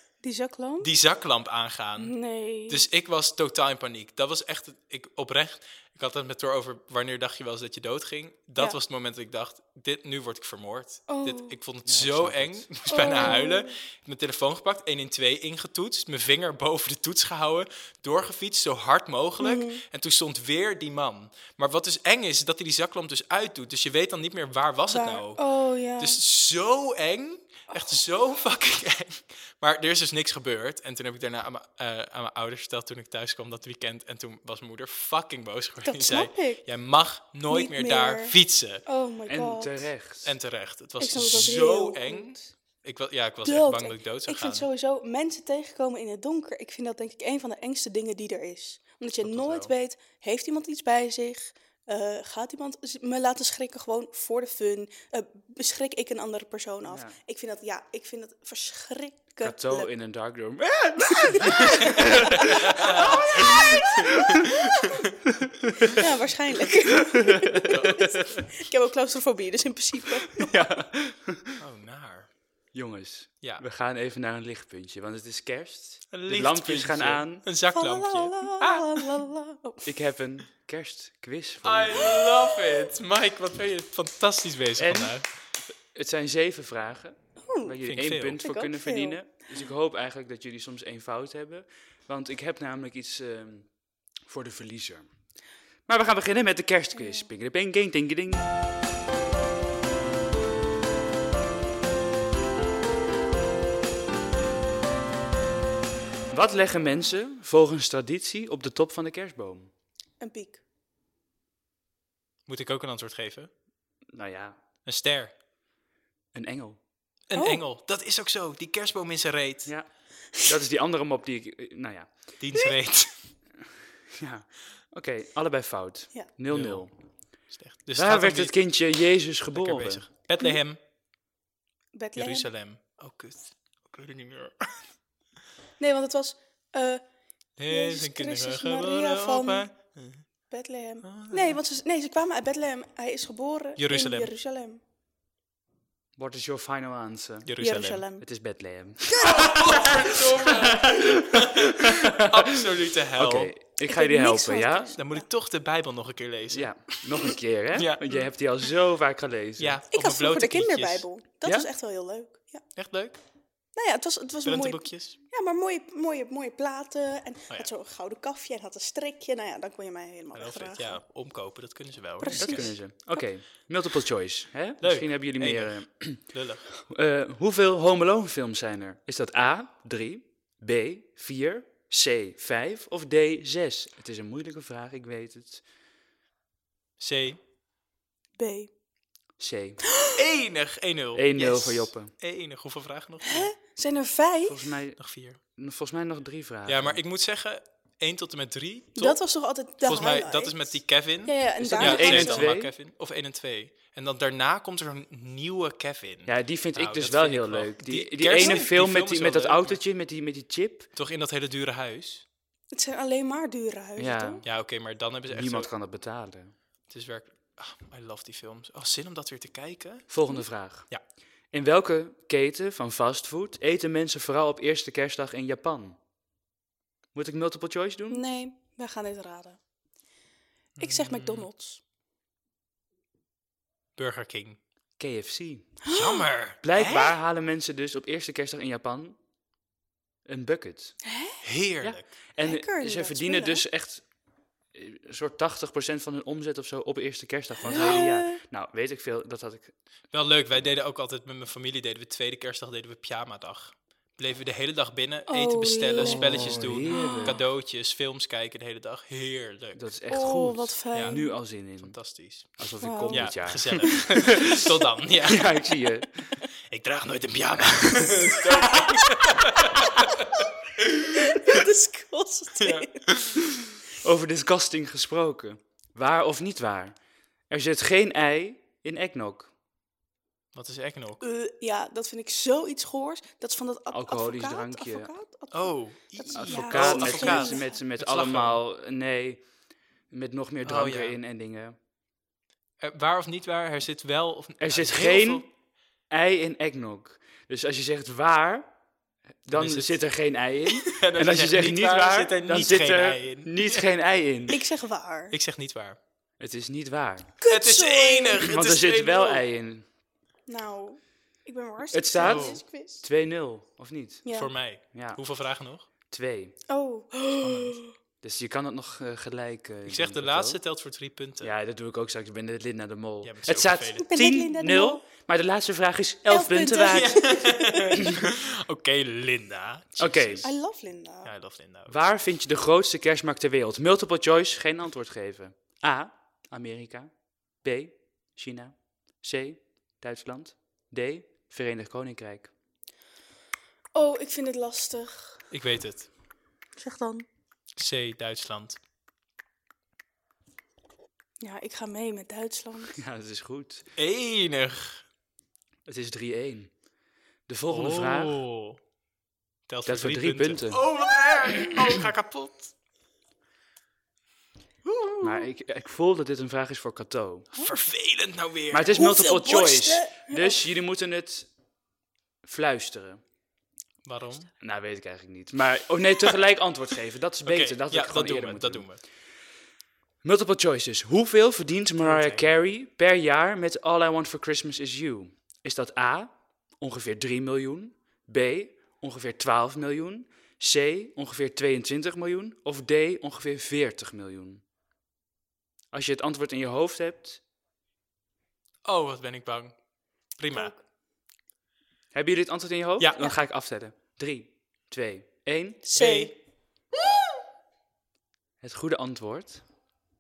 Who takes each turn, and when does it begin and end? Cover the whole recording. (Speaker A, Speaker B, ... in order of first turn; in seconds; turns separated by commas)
Speaker A: 0.2-0.9, Speaker B: 0.8-2.2, Speaker A: 2.0-2.8, Speaker B: 2.7-25.4, Speaker A: 11.1-11.6, Speaker C: 11.8-12.7, Speaker A: 12.9-13.7, Speaker A: 19.4-19.8, Speaker A: 24.9-26.2, Speaker B: 26.0-38.8, Speaker A: 35.8-36.6, Speaker A: 37.5-39.9, Speaker C: 39.3-40.4, Speaker B: 40.2-44.7, Speaker A: 41.0-42.5, Speaker A: 43.4-59.9, Speaker B: 49.2-49.7, Speaker C: 56.9-57.2, Speaker C: 59.4-64.6, Speaker A: 61.1-64.2, Speaker B: 62.4-63.8, Speaker B: 64.6-64.9, Speaker C: 65.3-66.0, Speaker A: 65.9-70.7, Speaker C: 67.1-68.4, Speaker B: 67.7-68.1, Speaker C: 70.3-71.6, Speaker B: 71.6-72.3, Speaker C: 72.7-77.5, Speaker B: 76.1-79.3, Speaker A: 77.7-79.9, Speaker C: 79.8-82.2, Speaker B: 81.6-85.2, Speaker C: 84.8-85.2, Speaker C: 85.9-95.2, Speaker A: 87.5-87.8, Speaker B: 87.8-88.4, Speaker A: 88.4-89.3, Speaker C: 95.9-98.5, Speaker A: 97.0-97.3, Speaker C: 106.3-109.7, Speaker A: 110.2-110.6, Speaker B: 112.5-113.5, Speaker C: 114.1-114.6, Speaker B: 114.8-115.3, Speaker C: 116.3-116.8, Speaker B: 117.3-119.7, Speaker A: 117.3-117.6, Speaker C: 119.7-122.1, Speaker B: 122.4-123.2, Speaker C: 124.2-126.9, Speaker B: 126.5-126.9, Speaker B: 127.5-128.7, Speaker C: 128.0-130.1, Speaker B: 129.5-130.8, Speaker A: 131.9-132.5, Speaker B: 132.2-134.8, Speaker A: 135.8-137.0, Speaker B: 137.6-140.3, Speaker A: 137.7-139.7, Speaker A: 140.5-144.8, Speaker B: 141.0-141.6, Speaker B: 143.8-144.3, Speaker C: 146.2-147.5, Speaker B: 147.4-148.1, Speaker A: 147.6-148.2, Speaker C: 148.2-152.6, Speaker A: 149.1-149.7, Speaker B: 149.2-153.5, Speaker C: 153.2-155.0, Speaker A: 153.9-155.2, Speaker B: 155.0-158.3, Speaker C: 156.5-159.8, Speaker B: 159.6-161.1, Speaker A: 159.9-162.6, Speaker C: 161.4-161.7, Speaker B: 162.8-163.2, Speaker A: 163.8-171.0, Speaker B: 164.4-165.2, Speaker B: 170.3-172.7, Speaker A: 172.2-173.3, Speaker C: 172.3-185.6, Speaker B: 174.8-176.7, Speaker B: 187.0-187.4, Speaker A: 188.4-188.7, Speaker C: 189.4-189.8, Speaker A: 189.8-190.2, Speaker B: 190.2-193.5, Speaker C: 191.2-192.1, Speaker A: 193.2-194.7, Speaker C: 194.5-197.0, Speaker B: 195.0-195.4, Speaker B: 196.7-199.2, Speaker A: 199.0-202.5, Speaker B: 199.8-209.8, Speaker C: 201.6-202.7, Speaker C: 206.3-210.9, Speaker A: 208.4-208.7, Speaker B: 211.0-212.2, Speaker A: 212.7-214.4, Speaker C: 214.0-214.4, Speaker B: 214.4-215.7, Speaker C: 215.3-216.5, Speaker B: 216.9-220.1, Speaker C: 220.1-220.9, Speaker C: 221.5-226.0, Speaker C: 227.1-228.2, Speaker A: 228.1-229.6, Speaker B: 230.8-231.5, Speaker A: 230.8-231.8, Speaker B: 234.0-234.6, Speaker C: 235.0-235.8, Speaker A: 235.8-236.3, Speaker B: 235.9-237.2, Speaker C: 236.6-239.2, Speaker C: 240.3-241.0, Speaker A: 241.0-241.5, Speaker B: 241.4-242.1, Speaker C: 241.8-244.1, Speaker A: 242.4-243.6, Speaker C: 244.7-249.8, Speaker A: 247.7-248.4, Speaker B: 247.7-248.1, Speaker B: 250.1-259.8, Speaker A: 255.3-257.4, Speaker C: 256.0-257.4, Speaker C: 259.7-262.0, Speaker A: 260.1-261.4, Speaker B: 260.9-265.6, Speaker C: 262.6-264.6, Speaker A: 262.8-264.1, Speaker C: 265.2-266.4, Speaker B: 266.7-270.3, Speaker A: 268.4-268.7, Speaker B: 270.8-271.7, Speaker A: 271.1-273.1, Speaker B: 272.6-273.4, Speaker C: 274.0-277.0, Speaker C: 277.5-279.5, Speaker B: 280.5-281.2, Speaker A: 281.2-287.7, Speaker C: 283.9-285.1, Speaker B: 285.5-288.6, Speaker C: 286.3-289.4, Speaker C: 290.1-291.8, Speaker B: 290.6-291.2, Speaker B: 292.8-295.5, Speaker C: 294.6-295.5, Speaker C: 296.1-298.7, Speaker C: 299.4-304.6, Speaker B: 299.5-300.0, Speaker B: 300.7-303.9, Speaker A: 304.5-305.4, Speaker B: 305.3-306.0, Speaker C: 306.4-307.4, Speaker A: 307.4-308.5, Speaker B: 307.5-309.4, Speaker C: 308.4-309.9, Speaker A: 310.5-313.0, Speaker C: 311.9-314.2, Speaker B: 312.2-312.6, Speaker A: 314.2-314.5, Speaker B: 314.3-315.9, Speaker C: 314.9-315.2, Speaker C: 316.1-316.6, Speaker A: 316.7-317.9, Speaker B: 317.4-317.8, Speaker C: 318.2-320.6, Speaker B: 319.9-321.5, Speaker C: 321.4-327.2, Speaker B: 323.2-324.1, Speaker A: 324.1-325.0, Speaker A: 326.3-328.1, Speaker B: 326.9-330.6, Speaker C: 330.0-330.5, Speaker A: 330.4-331.3, Speaker B: 331.2-332.0, Speaker C: 331.9-342.5, Speaker A: 343.9-345.4, Speaker B: 345.5-346.1, Speaker A: 346.8-347.3, Speaker B: 347.8-348.8, Speaker A: 351.4-352.9, Speaker C: 352.9-353.9, Speaker B: 354.0-355.1, Speaker C: 355.9-356.7, Speaker C: 357.5-358.4, Speaker B: 357.7-358.8, Speaker B: 359.7-362.7, Speaker C: 359.9-360.8, Speaker B: 364.9-365.2, Speaker C: 365.2-367.5, Speaker B: 367.5-369.1, Speaker C: 368.7-371.5, Speaker A: 368.9-370.7, Speaker C: 372.4-373.2, Speaker B: 374.0-374.5, Speaker C: 374.6-378.9, Speaker B: 377.5-379.0, Speaker C: 380.2-394.6, Speaker B: 382.0-382.5, Speaker C: 395.9-397.4, Speaker B: 398.9-399.8, Speaker B: 400.4-400.7, Speaker A: 400.5-400.8, Speaker C: 402.1-405.8, Speaker A: 405.8-406.4, Speaker B: 405.9-406.3, Speaker C: 408.6-409.6